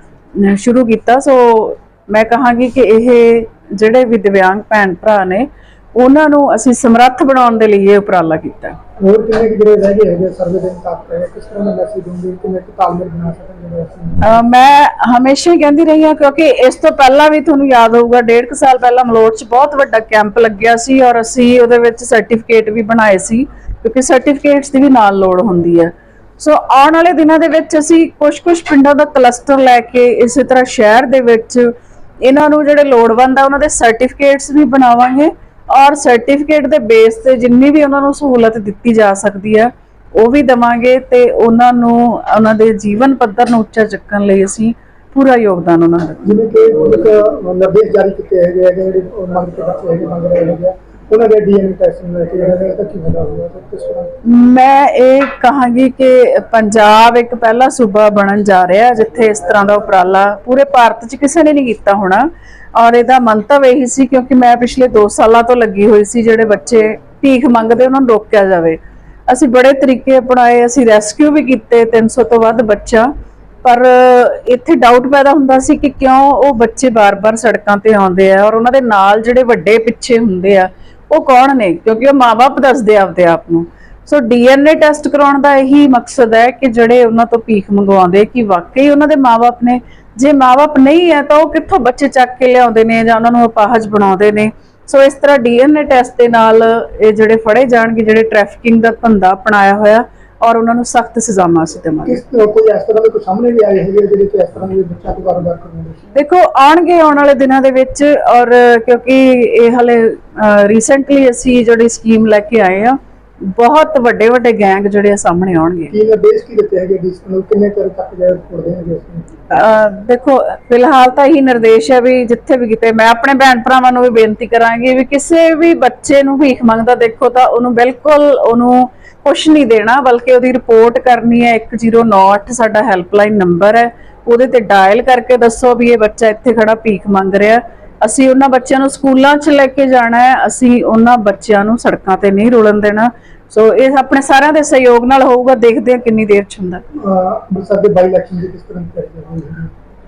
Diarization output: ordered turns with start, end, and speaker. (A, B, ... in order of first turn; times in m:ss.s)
0:00.4-0:08.8 A
0:09.0-0:14.4 B
0:14.2-0:46.2 A
0:46.2-0:54.1 B
0:54.2-1:13.1 A
1:13.6-1:42.2 A
1:42.1-1:46.0 B
1:46.2-1:55.9 A
1:55.9-1:59.3 B
1:59.5-2:26.8 A
2:26.9-2:29.7 B